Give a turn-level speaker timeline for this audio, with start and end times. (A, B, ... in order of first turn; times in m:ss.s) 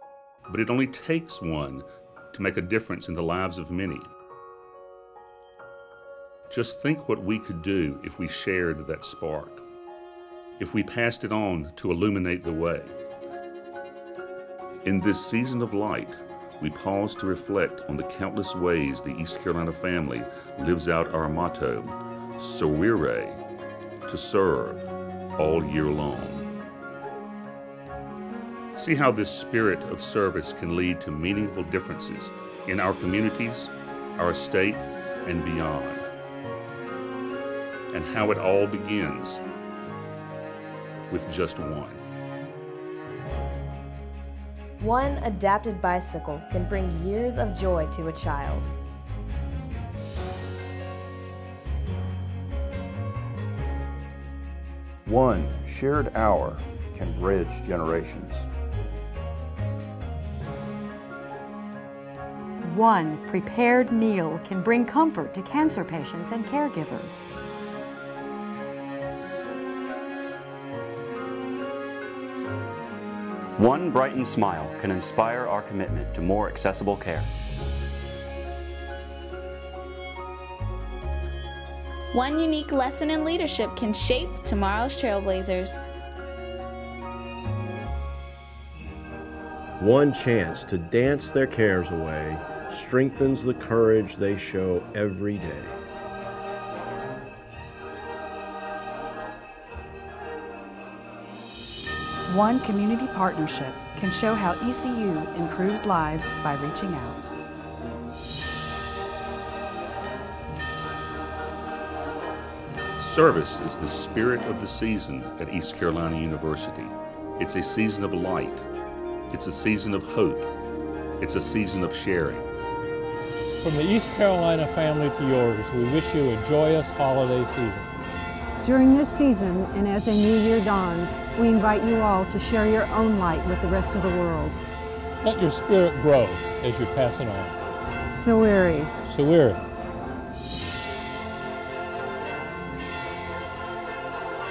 0:00.5-0:04.1 A
0:06.5-0:09.6 A
0:10.6-0:12.9 A
0:14.8-0:23.4 A
0:24.1-0:26.5 A
0:28.8-0:36.1 A
0:37.9-0:39.4 A
0:41.1-0:42.0 A
0:44.8-0:48.7 B
0:55.1-0:58.5 C
1:02.6-1:07.2 D
1:13.6-1:17.3 E
1:22.1-1:25.8 F
1:29.8-1:35.8 G
1:42.3-1:47.3 H
1:53.0-1:58.7 A
1:59.3-2:00.5 A
2:01.2-2:02.5 A
2:03.6-2:07.9 I
2:08.6-2:14.6 J
2:15.2-2:17.6 I
2:18.1-2:18.9 J
2:19.0-2:19.6 I